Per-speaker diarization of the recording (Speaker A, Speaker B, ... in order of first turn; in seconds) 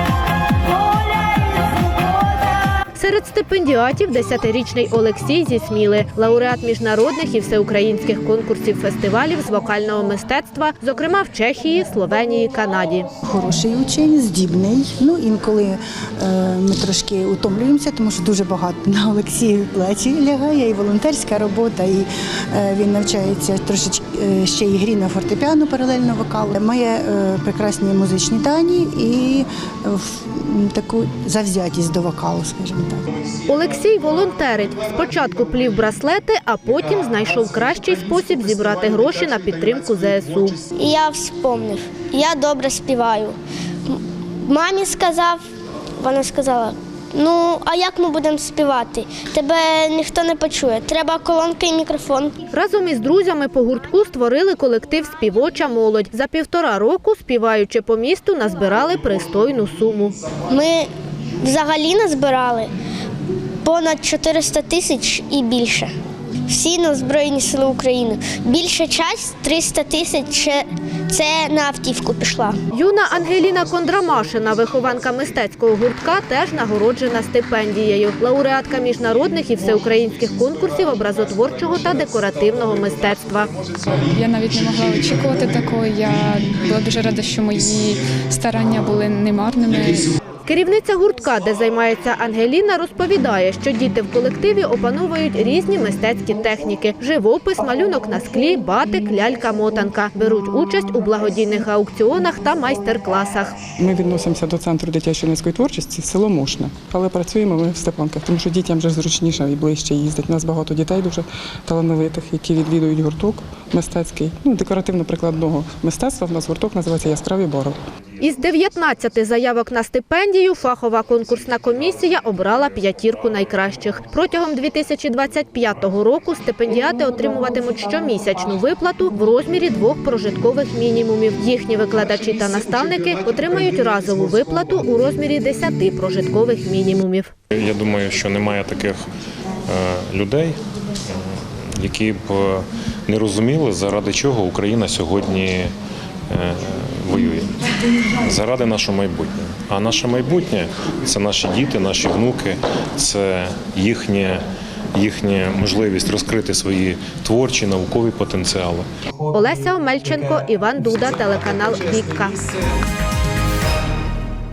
Speaker A: 2.9-13.1, 33.5-40.6, 52.5-60.2, 72.7-83.5, 90.5-103.5, 118.2-137.3, 159.3-162.4
Speaker B: 13.2-33.0
Speaker C: 40.7-43.4, 43.9-45.4, 46.0-52.3, 60.5-60.9, 61.4-62.7, 63.6-65.9, 66.5-72.6
Speaker D: 83.9-90.1
Speaker E: 103.8-117.8
Speaker F: 137.5-139.0, 139.7-145.7, 146.3-147.5, 148.2-154.4, 154.9-158.9